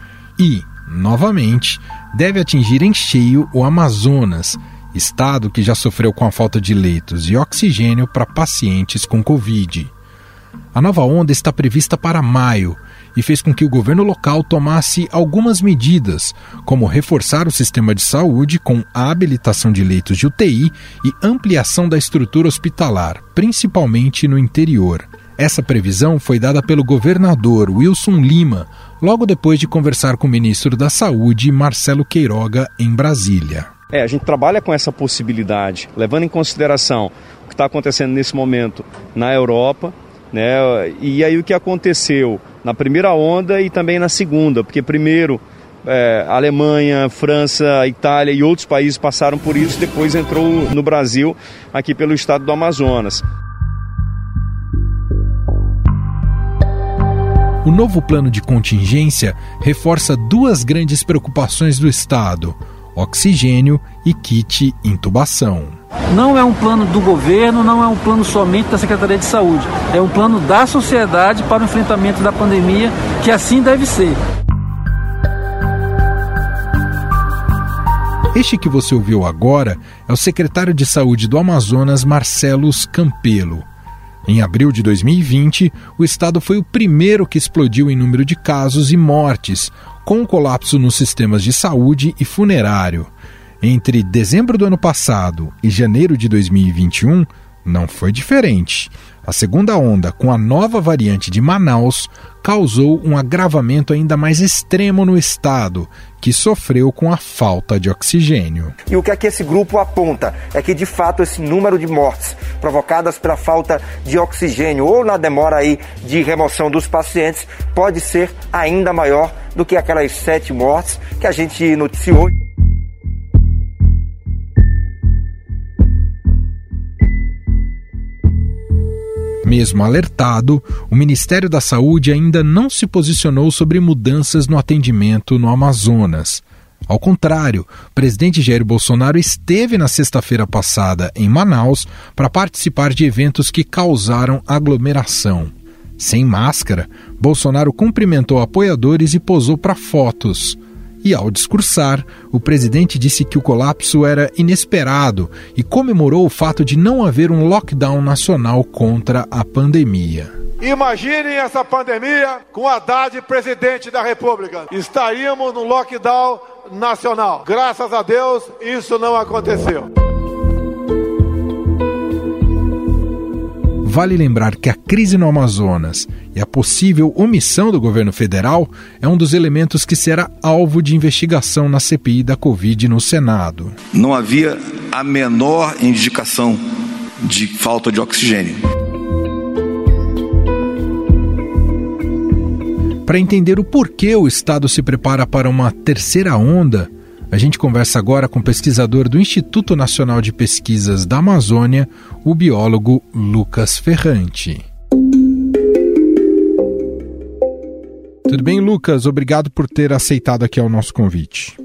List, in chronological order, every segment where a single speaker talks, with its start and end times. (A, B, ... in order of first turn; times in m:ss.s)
0:00.4-0:09.9 A
0:10.7-0:33.7 A
0:33.9-0:53.2 B
0:57.6-1:05.8 A
1:06.1-1:14.2 C
1:18.3-1:23.7 A
1:24.3-1:48.8 A
1:48.9-2:02.3 D
2:09.4-2:40.3 A
2:40.6-2:49.9 E
2:53.8-3:03.8 A
3:03.9-3:06.6 F
3:07.2-3:08.6 F
3:13.1-3:24.6 A
3:28.3-3:31.6 A